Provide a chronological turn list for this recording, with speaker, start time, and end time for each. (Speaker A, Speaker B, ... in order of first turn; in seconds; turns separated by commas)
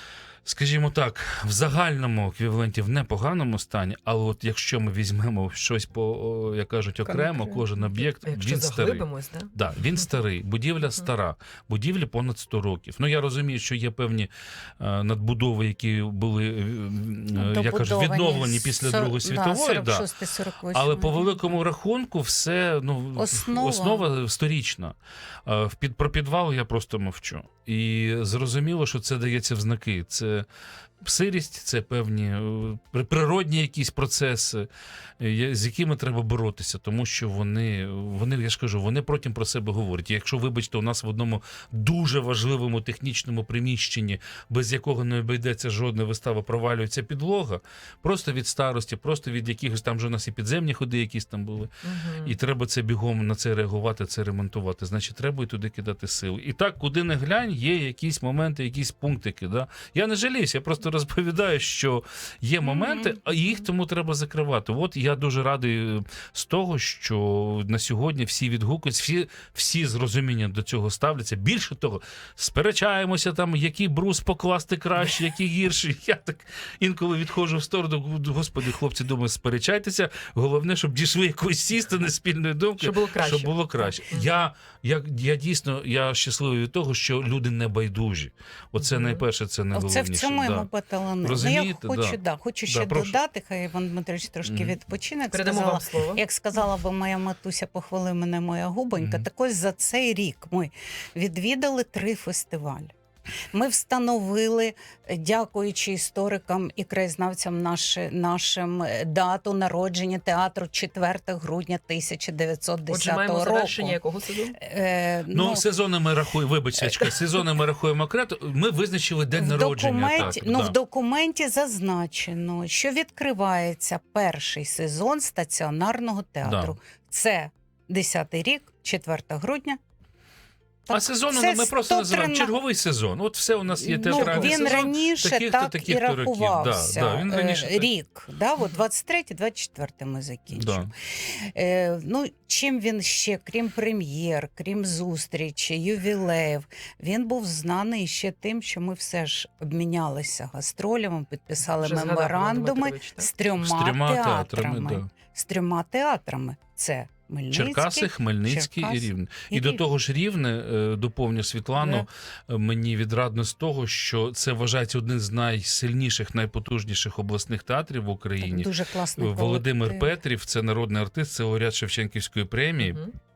Speaker A: 0.4-20.1, Speaker B: 7.0-7.7, Speaker C: 8.2-9.5, Speaker B: 17.3-21.4, Speaker A: 20.7-24.9, Speaker B: 23.1-24.0, Speaker A: 25.4-30.4, Speaker A: 31.0-34.7, Speaker A: 35.2-90.7, Speaker C: 51.8-52.3, Speaker B: 62.8-63.1, Speaker C: 82.8-84.3, Speaker C: 88.8-89.2, Speaker B: 89.7-102.9, Speaker A: 91.2-93.2, Speaker A: 94.4-94.8, Speaker C: 95.3-96.2, Speaker A: 99.0-99.3, Speaker B: 103.5-114.0, Speaker C: 112.9-114.6, Speaker B: 114.6-115.6, Speaker A: 115.3-120.7, Speaker B: 116.8-117.1, Speaker B: 119.3-129.8, Speaker A: 126.4-126.8, Speaker B: 130.9-132.5, Speaker A: 130.9-137.9, Speaker B: 133.8-159.8, Speaker C: 134.1-134.9, Speaker A: 140.5-140.9, Speaker C: 151.7-153.3, Speaker A: 153.6-155.1, Speaker A: 157.5-173.0, Speaker B: 161.8-162.1, Speaker B: 168.4-170.1, Speaker C: 172.8-173.1